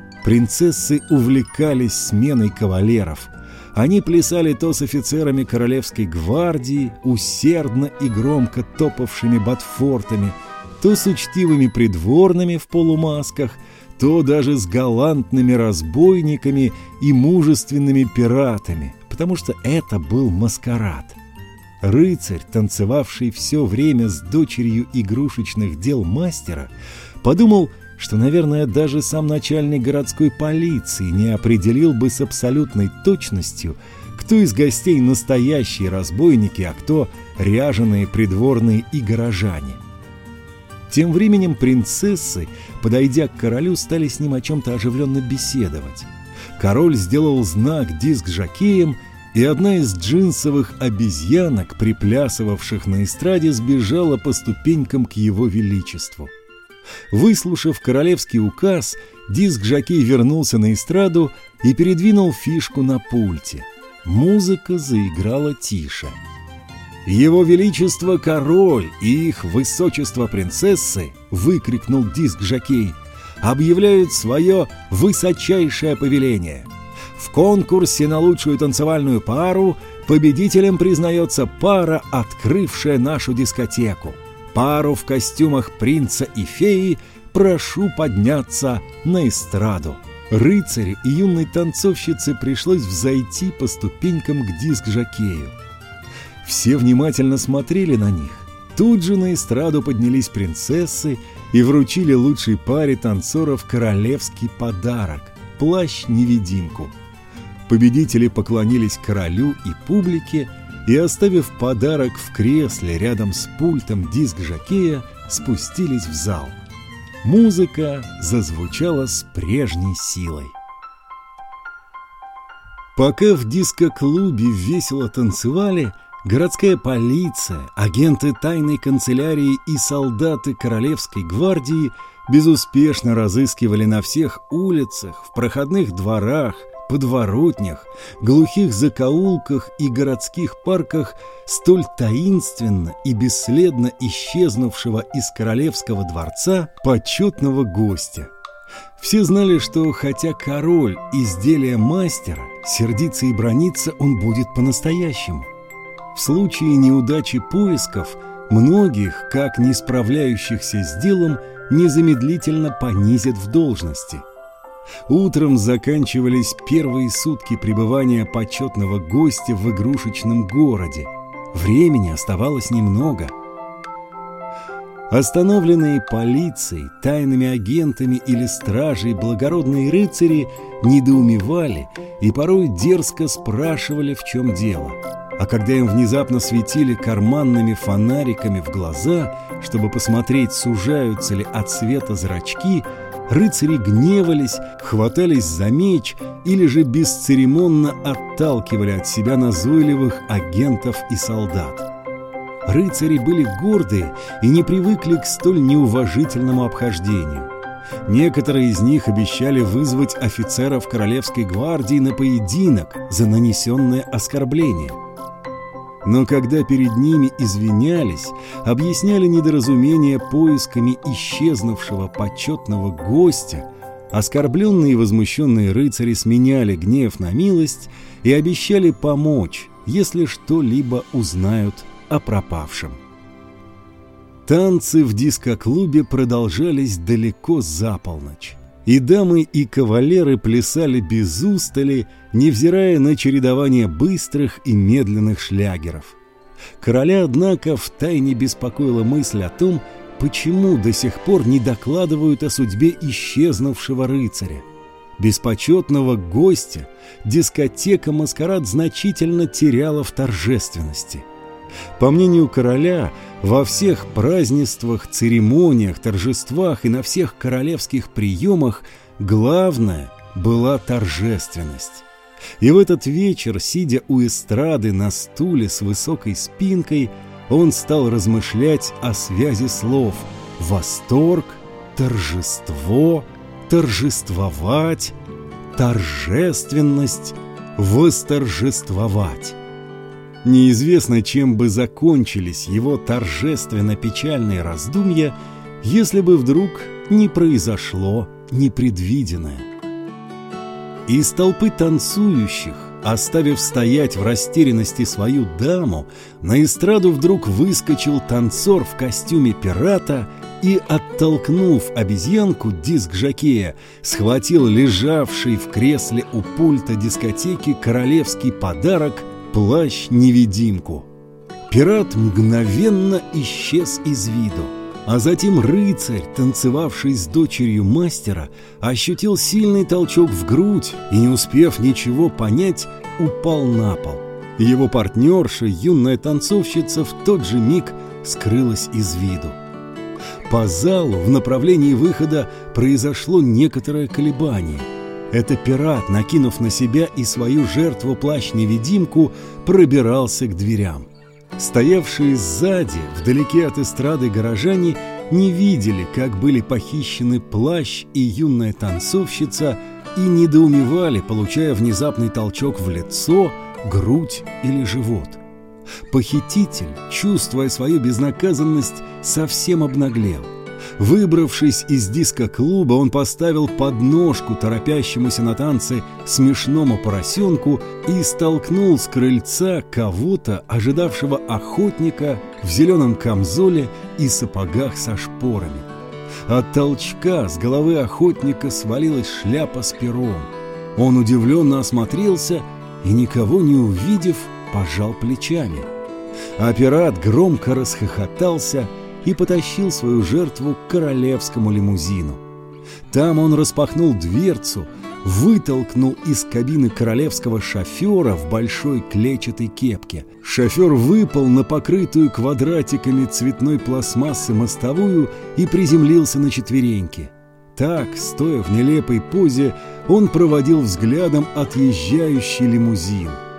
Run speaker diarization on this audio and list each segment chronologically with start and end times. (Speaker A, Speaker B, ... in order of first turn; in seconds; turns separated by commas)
Speaker A: 0.2-21.2, Speaker A: 21.8-39.8, Speaker A: 40.9-56.3, Speaker A: 57.1-66.2, Speaker A: 67.0-95.6, Speaker A: 96.4-107.0, Speaker A: 107.7-116.6, Speaker A: 117.2-120.5, Speaker A: 123.0-148.3, Speaker A: 149.0-155.5, Speaker A: 156.1-164.2, Speaker A: 165.1-173.3, Speaker A: 175.1-201.9, Speaker A: 202.7-207.5, Speaker A: 208.0-215.0, Speaker A: 216.0-233.0, Speaker A: 234.5-246.2, Speaker A: 246.8-254.7, Speaker A: 255.2-261.3, Speaker A: 262.0-272.1, Speaker A: 272.6-285.2, Speaker A: 285.8-289.6, Speaker A: 290.4-299.7, Speaker A: 301.1-321.1, Speaker A: 321.7-339.6, Speaker A: 340.5-365.4, Speaker A: 366.1-385.9, Speaker A: 386.5-395.9, Speaker A: 396.6-402.4, Speaker A: 403.1-423.4